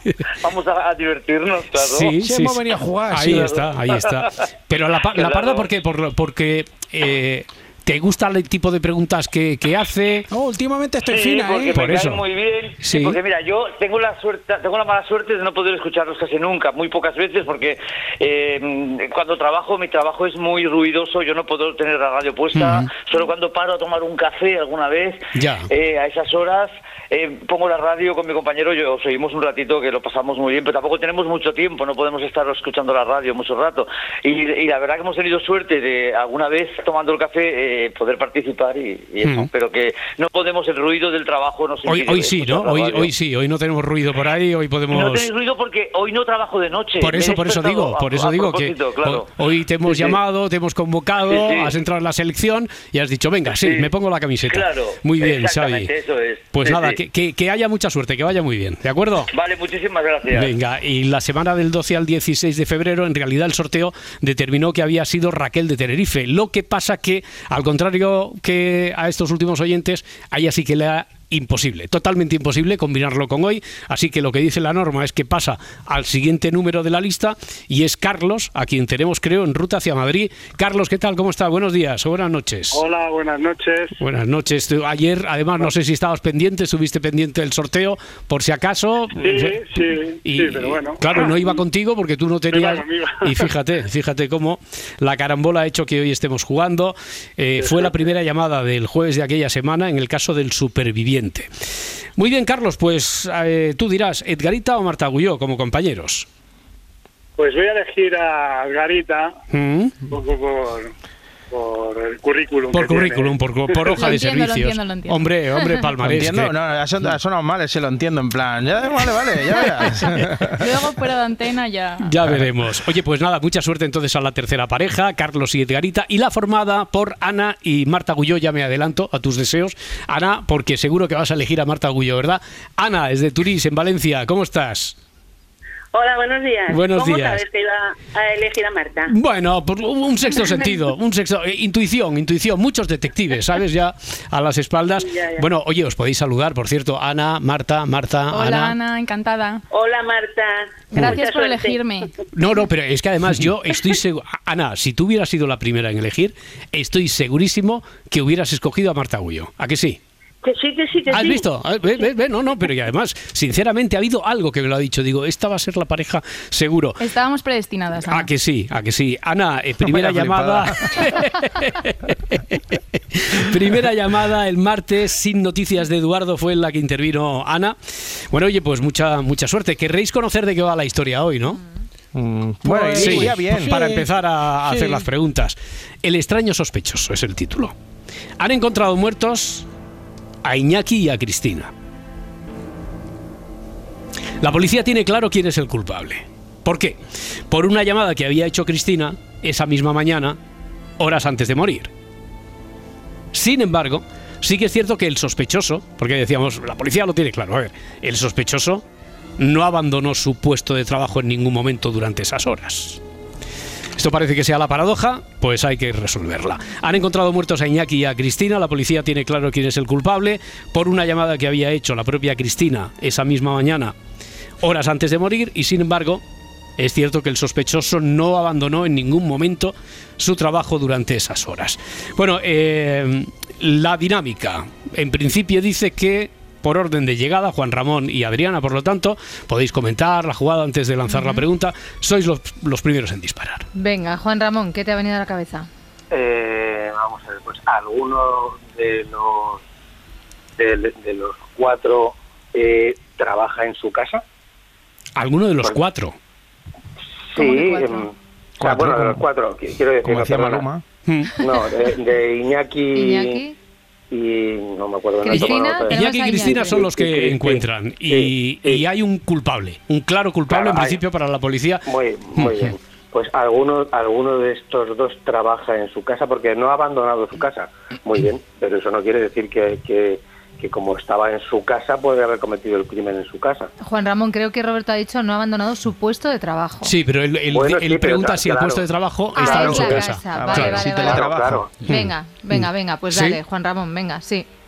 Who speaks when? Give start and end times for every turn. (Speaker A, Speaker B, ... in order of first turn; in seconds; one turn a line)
Speaker A: 0.4-2.1
Speaker B: 1.8-10.3
Speaker C: 2.2-3.6
Speaker A: 3.3-4.2
Speaker A: 5.0-5.7
Speaker C: 10.3-11.8
Speaker A: 11.0-43.1
Speaker B: 11.7-12.2
Speaker B: 12.8-13.2
Speaker B: 22.5-22.9
Speaker B: 25.3-25.7
Speaker B: 39.2-39.5
Speaker B: 41.9-45.3
Speaker A: 44.9-49.3
Speaker B: 47.0-55.9
Speaker A: 49.8-50.2
Speaker A: 51.2-51.7
Speaker A: 53.5-53.9
Speaker A: 54.5-57.0
Speaker B: 56.5-59.3
Speaker A: 59.3-60.5
Speaker B: 60.3-82.8
Speaker D: 82.7-84.0
Speaker B: 84.0-89.7
Speaker D: 89.2-91.6
Speaker B: 90.2-101.5
Speaker D: 92.5-93.4
Speaker D: 97.6-97.9
Speaker B: 102.2-106.3
Speaker D: 107.4-109.3
Speaker B: 109.5-109.9
Speaker D: 110.1-110.9
Speaker D: 111.5-113.8
Speaker B: 112.7-116.5
Speaker E: 113.9-115.9
Speaker F: 116.0-120.6
Speaker E: 119.8-122.1
Speaker B: 122.0-134.9
Speaker G: 135.9-139.1
Speaker B: 136.7-137.4
Speaker B: 139.1-148.7
Speaker G: 145.0-145.4
Speaker E: 148.3-149.6
Speaker G: 149.7-151.8
Speaker E: 150.9-152.1
Speaker B: 150.9-151.2
Speaker B: 152.3-160.0
Speaker G: 160.4-161.4
Speaker B: 161.1-167.0
Speaker E: 167.0-168.3
Speaker B: 168.1-177.8
Speaker F: 169.8-170.9
Speaker B: 178.3-181.6
Speaker F: 182.1-183.7
Speaker C: 182.6-184.1
Speaker B: 183.0-187.7
Speaker C: 184.6-185.0
Speaker B: 188.4-189.7
Speaker B: 190.4-191.7
Speaker B: 194.4-197.0
Speaker B: 197.5-200.4
Speaker B: 201.0-201.9
Speaker B: 203.3-208.8
Speaker B: 209.4-213.0
Speaker B: 213.9-223.9
Speaker B: 224.6-226.2
Speaker B: 226.8-243.7
Speaker H: 243.7-245.7
Speaker I: 246.1-249.6
Speaker I: 250.6-254.2
Speaker B: 255.2-256.1
Speaker I: 257.3-260.7
Speaker H: 257.4-258.0
Speaker F: 258.6-259.2
Speaker F: 260.0-260.8
Speaker B: 261.1-261.4
Speaker I: 261.4-263.4
Speaker H: 262.9-263.5
Speaker I: 264.1-268.8
Speaker H: 265.2-266.8
Speaker B: 265.4-272.7
Speaker I: 270.5-271.0
Speaker I: 271.8-283.7
Speaker H: 283.8-286.9
Speaker B: 286.8-290.9
Speaker I: 287.5-288.9
Speaker H: 289.3-291.3
Speaker I: 289.4-289.9
Speaker F: 290.3-291.6
Speaker I: 290.8-291.8
Speaker B: 291.9-293.4
Speaker H: 291.9-294.4